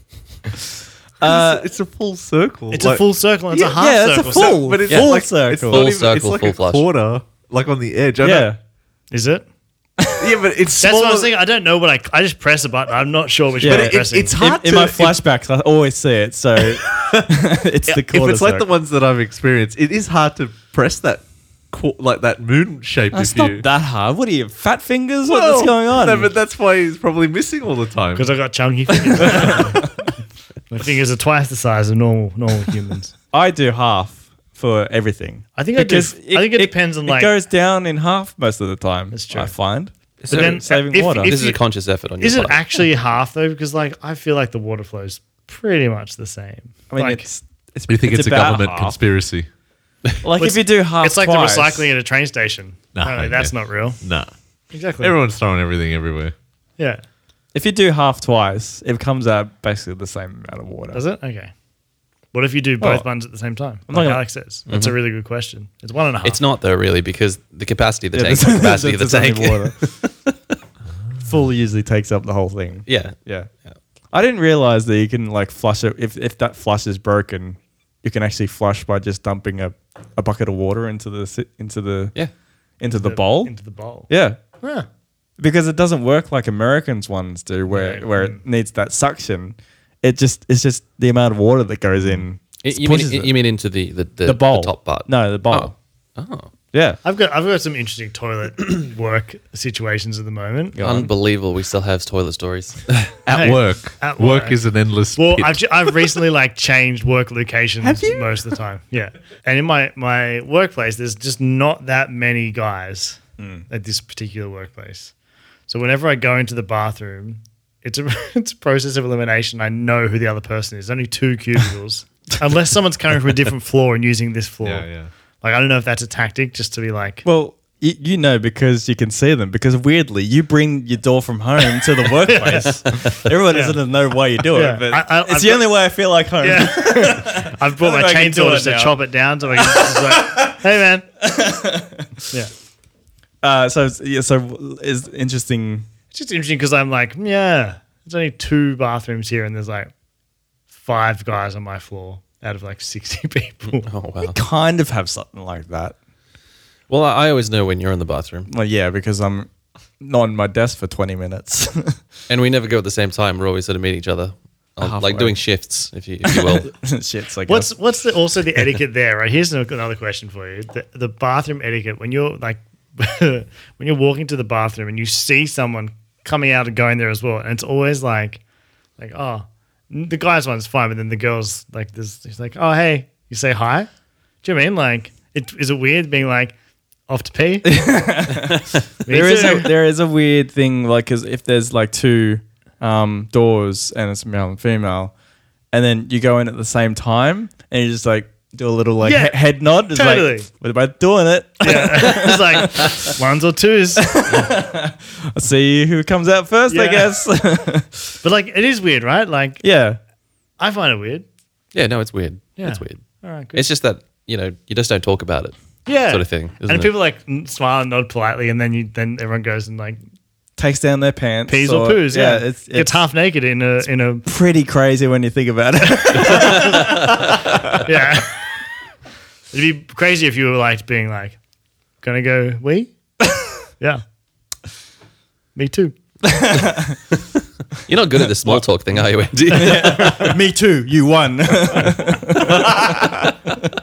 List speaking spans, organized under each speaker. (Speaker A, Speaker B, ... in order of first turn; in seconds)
Speaker A: 1.2-1.7, 3.5-5.8, 8.2-8.6, 10.0-10.2, 13.6-18.7, 23.1-26.3, 29.2-29.7, 33.3-41.4, 46.9-49.0, 50.2-51.9, 57.5-61.0, 62.8-63.0, 63.9-64.2, 68.1-69.9, 71.2-73.5, 74.1-82.1, 82.8-83.5, 84.1-84.4, 85.4-93.3, 94.2-95.7, 96.7-97.0, 100.7-101.1, 113.4-113.6, 127.2-138.9, 139.6-140.0, 141.2-142.1, 143.4-145.8, 154.2-155.9, 158.5-159.5, 160.0-162.0, 164.8-165.3, 166.2-167.7, 187.6-195.1, 195.7-203.0, 204.0-208.0, 209.6-210.0, 220.6-223.1, 224.2-227.2, 236.2-237.0, 239.5-242.8
Speaker B: 1.2-3.0, 4.2-8.6, 10.2-11.3, 13.6-15.2, 16.6-17.2, 17.9-23.6, 25.3-28.3, 47.9-49.5, 52.9-54.3, 55.0-56.3, 103.2-105.9, 107.8-108.2, 124.6-125.1, 242.5-243.3
Speaker C: 2.7-4.6, 9.1-9.4, 10.8-14.3, 28.1-29.9, 30.7-33.1, 35.5-37.3, 39.1-39.5, 40.3-41.6, 42.2-47.3, 50.4-54.0, 54.7-55.1, 60.9-61.5, 62.3-66.4, 82.9-84.1, 84.6-84.8, 87.7-88.4, 97.0-100.8, 103.3-104.6, 105.2-115.1, 115.7-124.9, 125.4-127.2, 132.2-133.8, 134.5-135.7, 136.4-141.1, 146.1-149.9, 150.8-153.9, 167.5-178.4, 179.0-183.9, 184.4-186.5, 187.1-187.8, 189.0-189.7, 199.0-199.3, 199.9-200.5, 201.6-204.2, 206.7-207.1, 208.2-209.6, 210.6-211.2, 212.6-213.6, 215.8-220.0, 221.5-224.2, 226.0-228.4, 229.5-231.4, 232.0-232.9, 235.5-235.9
Speaker D: 4.9-6.9, 40.3-40.6, 41.2-42.8, 64.7-64.9, 66.2-70.1, 72.9-73.1, 92.6-96.5, 100.8-103.1, 153.8-154.3, 156.9-158.5, 162.3-166.7, 211.7-216.9, 237.8-240.4